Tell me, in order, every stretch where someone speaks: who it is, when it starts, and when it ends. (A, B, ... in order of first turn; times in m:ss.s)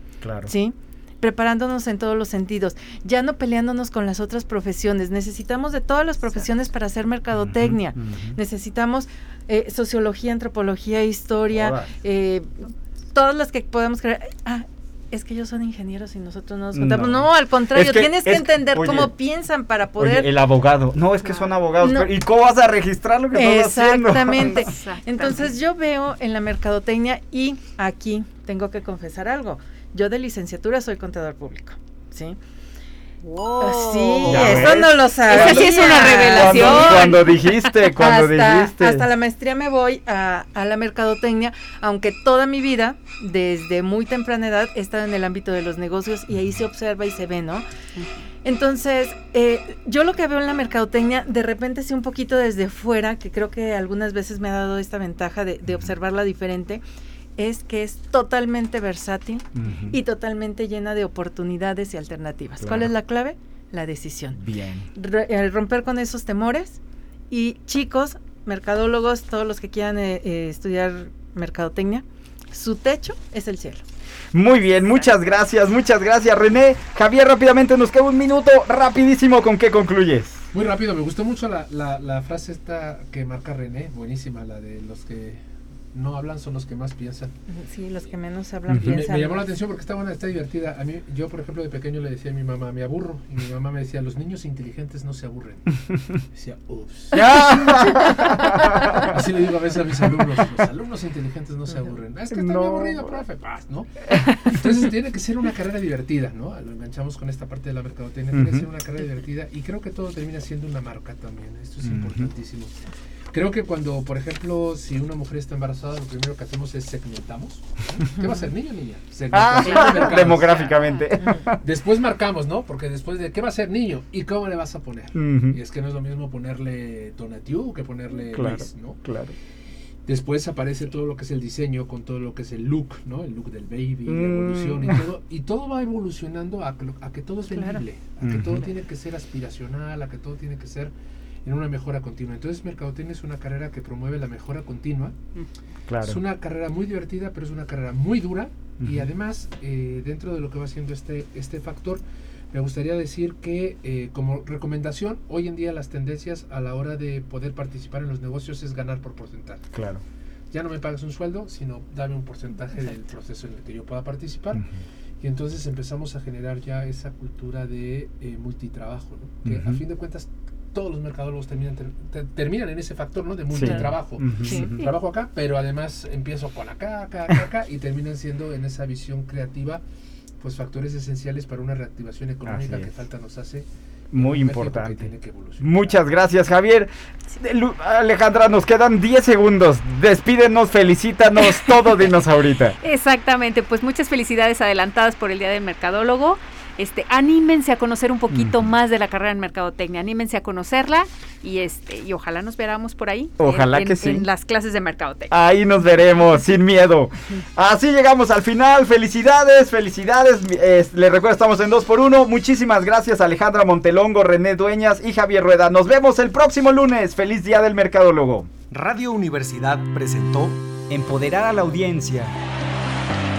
0:00.2-0:00.5 A
0:00.4-0:20.3 B
0:07.3-0:08.4 A
0:11.5-0:11.9 A
0:16.7-0:19.1 A
0:20.0-0:24.6 A
0:21.8-0:22.1 B
0:23.3-0:32.4 B
0:24.4-0:25.5 C
0:33.2-0:34.7 C
0:33.6-0:37.2 B
0:34.2-0:39.1 A
0:35.3-0:37.4 C
0:37.8-0:47.6 B
0:48.4-0:56.8 B
0:57.4-1:04.4 B
0:59.6-1:00.0 A
1:02.6-1:02.9 A
1:04.4-1:04.9 A
1:04.9-1:06.8 B
1:07.3-1:13.8 B
1:14.3-1:20.4 A
1:20.5-1:27.3 D
1:27.5-1:29.5 B
1:28.7-1:37.6 D
1:37.1-1:39.1 A
1:38.2-1:52.8 D
1:42.3-1:43.1 A
1:48.3-1:48.7 A
1:51.8-1:52.3 A
1:53.3-2:00.6 D
1:59.3-2:01.6 A
1:59.7-2:01.0 C
2:01.6-2:09.0 D
2:05.1-2:05.6 A
2:08.3-2:09.3 A
2:10.0-2:20.9 D
2:14.1-2:15.0 A
2:17.5-2:17.8 B
2:18.2-2:18.7 A
2:21.4-2:25.2 D
2:25.9-2:26.2 A
2:26.0-2:39.7 D
2:28.8-2:29.1 A
2:39.7-2:40.0 A
2:40.5-2:44.7 D
2:45.2-2:59.8 D
2:49.4-2:49.8 A
2:53.5-2:54.9 A
2:53.6-2:54.7 B
3:00.4-3:06.0 D
3:02.4-3:02.9 A
3:04.1-3:12.8 A
3:12.8-3:25.3 C
3:18.3-3:18.7 A
3:23.4-3:24.3 A
3:25.3-3:38.5 A
3:38.7-3:40.6 E
3:40.9-3:42.3 A